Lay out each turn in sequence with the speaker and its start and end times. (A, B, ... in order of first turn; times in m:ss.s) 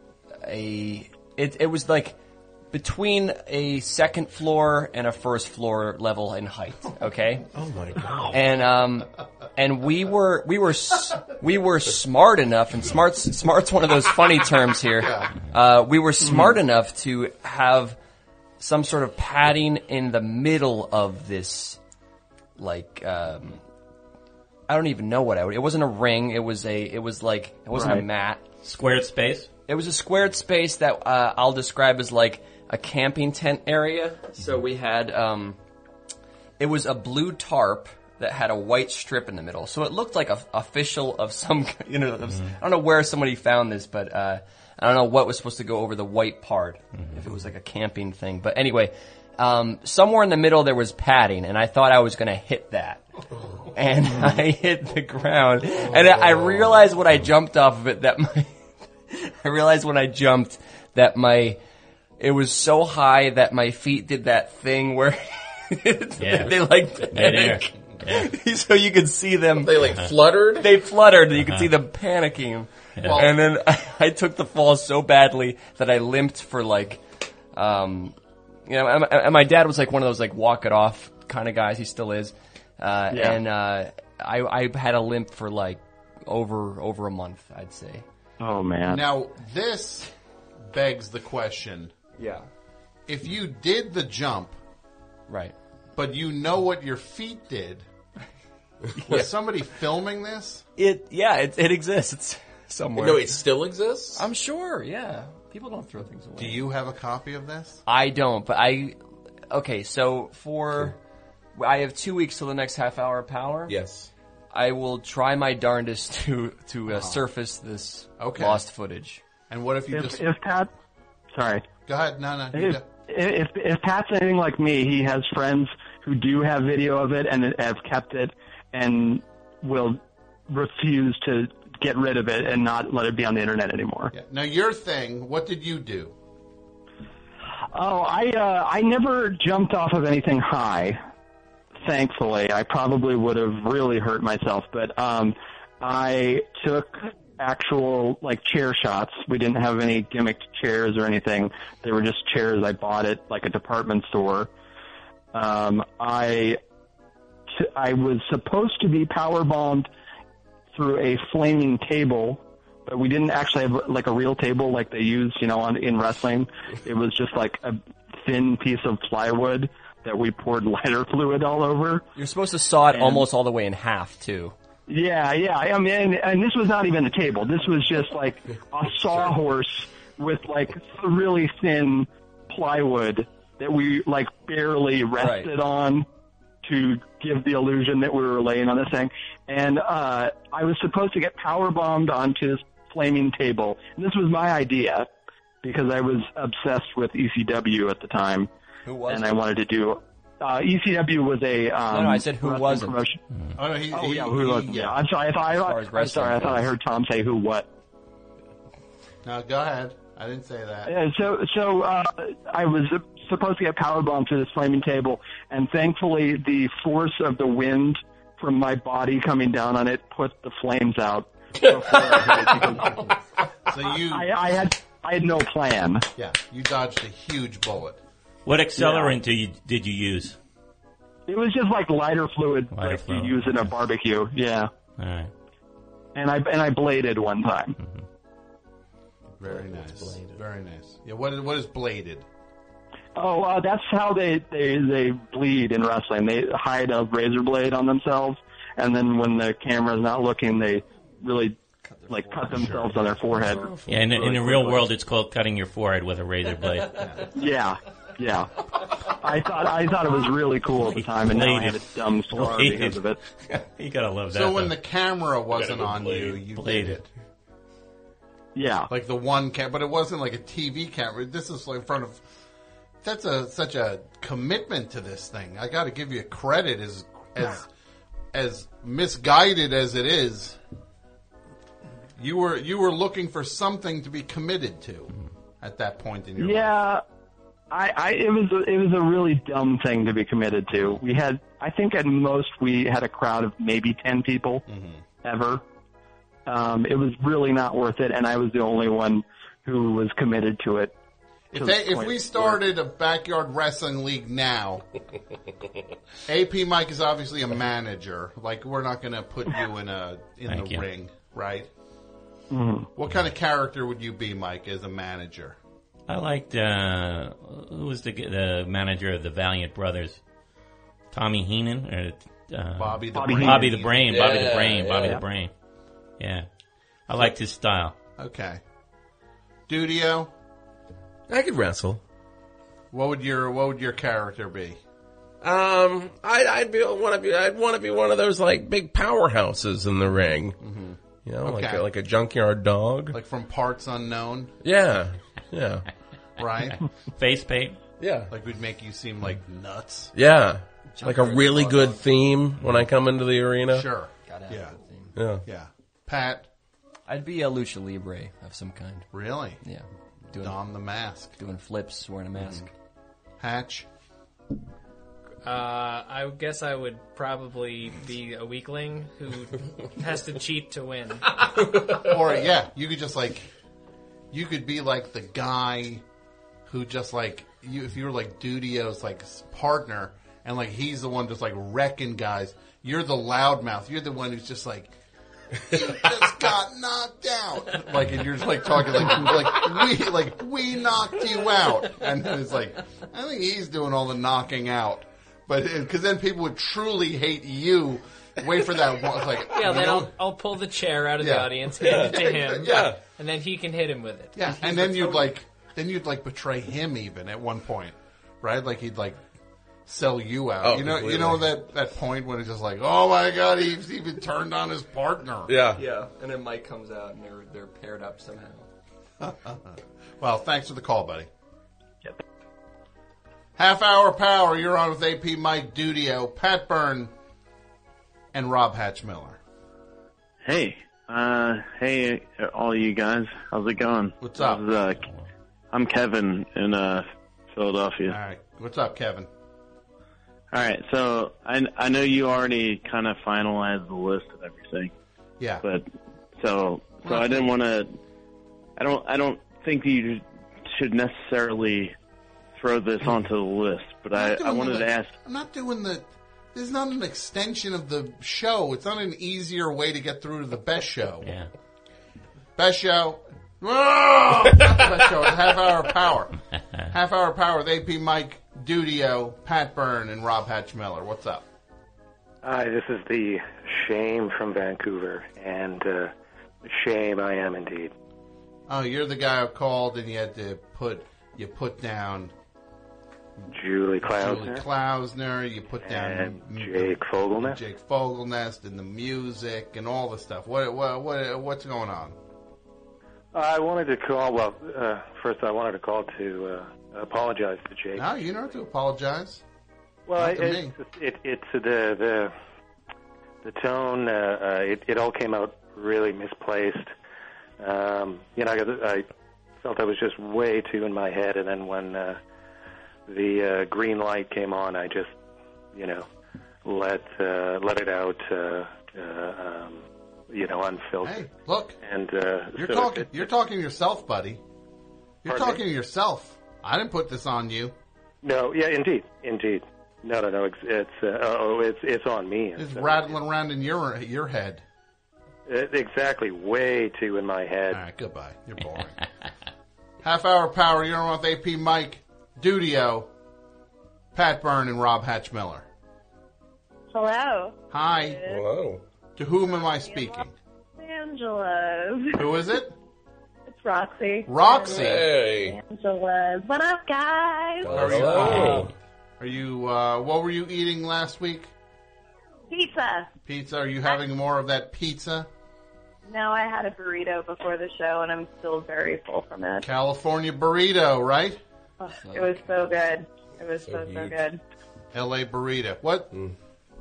0:00.3-0:02.2 A
0:02.7-0:07.4 A
0:07.5-0:08.4 B
0:08.3-0:18.0 A
0:15.0-0:15.3 C
0:18.6-0:21.8 A
0:22.6-0:23.6 A
0:24.7-0:28.4 A
0:27.7-0:28.0 D
0:28.6-0:29.5 E
0:29.7-0:35.6 A
0:36.6-0:53.0 A
0:53.7-0:58.6 A
0:59.1-1:01.6 A
1:02.2-1:09.9 A
1:06.2-1:08.3 E
1:09.6-1:10.7 B
1:10.6-1:17.0 A
1:13.0-1:13.2 E
1:13.0-1:13.3 C
1:17.5-1:18.1 A
1:18.6-1:28.0 A
1:23.1-1:23.4 D
1:28.4-1:29.0 D
1:28.9-1:30.1 C
1:30.7-1:31.9 C
1:32.2-1:32.5 A
1:33.1-1:34.6 C
1:35.3-1:35.5 A
1:35.9-1:37.8 C
1:39.0-1:39.2 A
1:39.0-1:40.6 C
1:40.8-1:43.4 A
1:43.0-1:44.2 B
1:44.1-1:46.6 A
1:46.4-1:47.8 C
1:47.8-1:49.0 A
1:49.5-1:51.0 A
1:51.5-1:53.8 A
1:53.7-1:54.1 B
1:54.5-1:59.2 A
1:56.9-1:57.2 C
1:58.2-1:58.6 C
1:59.5-2:00.2 C
1:59.9-2:00.7 D
2:01.3-2:01.7 D
2:01.8-2:02.8 C
2:02.5-2:14.1 D
2:14.1-2:16.1 C
2:17.7-2:21.0 D
2:21.8-2:34.5 D
2:35.3-2:36.6 D
2:37.5-2:39.9 D
2:40.7-2:52.0 D
2:52.2-2:54.5 A
2:52.9-2:53.2 D
2:54.9-3:06.0 D
3:05.2-3:05.5 A
3:06.6-3:15.1 D
3:15.6-3:18.5 D
3:18.8-3:19.4 A
3:19.1-3:23.2 D
3:21.9-3:23.0 A
3:23.6-3:25.0 C
3:23.9-3:27.7 D
3:25.5-3:26.7 A
3:29.2-3:30.9 C
3:30.8-3:43.1 D
3:43.7-3:44.3 C
3:44.0-3:46.1 D
3:46.2-3:48.0 C
3:48.4-3:50.4 E
3:48.8-3:49.1 D
3:51.3-3:54.7 D
3:52.7-3:53.7 E
3:55.0-3:55.3 E
3:56.1-3:57.8 D
3:59.4-4:02.2 C
4:03.2-4:11.6 D
4:11.8-4:12.8 A
4:12.1-4:13.6 D
4:12.5-4:12.9 C
4:13.4-4:14.8 B
4:13.9-4:17.1 E
4:17.0-4:17.3 C
4:17.3-4:18.5 D
4:19.1-4:23.2 D
4:20.8-4:24.7 E
4:24.3-4:27.1 C
4:25.5-4:26.4 B
4:26.5-4:27.0 E
4:28.5-4:28.9 D
4:28.9-4:32.2 C
4:33.0-4:37.7 C
4:38.3-4:40.6 C
4:42.2-4:46.7 C
4:46.4-4:47.0 D
4:47.7-4:54.6 D
4:54.7-4:55.0 C
4:55.2-4:55.6 D
4:56.4-5:00.9 D
5:01.5-5:04.8 C
5:01.5-5:02.6 D
5:06.2-5:11.7 C
5:10.5-5:10.8 E
5:12.5-5:12.9 D
5:13.0-5:15.6 C
5:16.1-5:20.2 E
5:21.1-5:25.5 E
5:22.8-5:24.4 C
5:23.1-5:23.8 D
5:24.1-5:25.2 B
5:26.2-5:26.5 E
5:27.1-5:27.9 E
5:28.2-5:28.6 C
5:29.7-5:30.3 C
5:31.3-5:32.0 B
5:32.9-5:34.8 C
5:35.4-5:40.6 B
5:40.6-5:41.9 C
5:41.2-5:43.2 B
5:43.1-5:44.5 C
5:44.6-5:45.9 B
5:46.4-5:46.8 C
5:47.2-5:47.8 E
5:48.0-5:48.3 B
5:48.3-5:50.1 C
5:50.1-5:53.9 B
5:50.9-5:52.1 A
5:53.7-5:54.8 C
5:54.2-5:55.1 A
5:55.1-5:55.4 B
5:55.4-5:56.5 C
5:57.1-5:59.1 A
5:59.1-5:59.6 C
5:59.6-6:00.6 A
6:00.4-6:01.3 C
6:01.4-6:02.7 A
6:03.4-6:03.8 C
6:05.4-6:11.4 F
6:11.9-6:13.5 C
6:14.3-6:16.0 C
6:16.7-6:24.9 C
6:25.6-6:40.1 C
6:39.5-6:44.5 F
6:41.2-6:42.9 C
6:41.8-6:43.0 B
6:44.3-6:49.2 C
6:49.8-6:55.6 C
6:50.6-6:51.5 B
6:55.5-6:55.8 B
6:55.8-6:58.7 A
6:59.2-7:01.3 C
7:03.6-7:07.1 C
7:08.3-7:09.4 C
7:10.4-7:15.1 G
7:14.2-7:14.6 C
7:15.7-7:18.2 G
7:18.1-7:19.3 C
7:20.5-7:24.9 G
7:26.4-7:27.9 G
7:27.0-7:27.5 C
7:28.8-7:31.9 G
7:32.5-7:35.1 G
7:34.1-7:41.3 C
7:41.2-7:41.5 E
7:42.6-7:51.4 C
7:52.4-7:56.1 H
7:56.6-7:57.9 H
7:58.7-8:02.3 C
8:03.5-8:04.6 H
8:04.0-8:12.2 C
8:05.8-8:07.6 H
8:13.3-8:18.2 H
8:18.0-8:19.4 C
8:20.1-8:22.3 H
8:20.2-8:20.7 C
8:23.4-8:26.9 H
8:27.6-8:29.1 H
8:29.6-8:32.2 H
8:33.1-8:35.1 H
8:35.7-8:36.0 H
8:36.6-8:41.3 H
8:41.0-8:41.8 C
8:41.8-8:43.3 H
8:42.6-8:44.4 C
8:45.2-8:47.7 C
8:45.2-8:45.6 H
8:48.2-8:53.2 H
8:52.6-8:54.6 C
8:55.4-8:57.8 H
8:57.7-8:59.0 C
9:00.0-9:03.1 C
9:04.1-9:05.6 C
9:06.9-9:08.4 I
9:07.7-9:08.2 C
9:08.2-9:08.8 B
9:09.2-9:10.3 C
9:09.4-9:10.2 I
9:10.8-9:12.4 I
9:12.2-9:12.7 C
9:13.5-9:18.4 I
9:14.3-9:15.1 C
9:14.6-9:15.6 B
9:17.6-9:18.7 B
9:17.7-9:21.5 C
9:22.5-9:23.1 I
9:23.2-9:25.3 C
9:26.0-9:29.7 I
9:29.6-9:31.4 C
9:31.8-9:34.4 I
9:31.9-9:32.5 A
9:33.6-9:34.2 B
9:34.9-9:36.1 C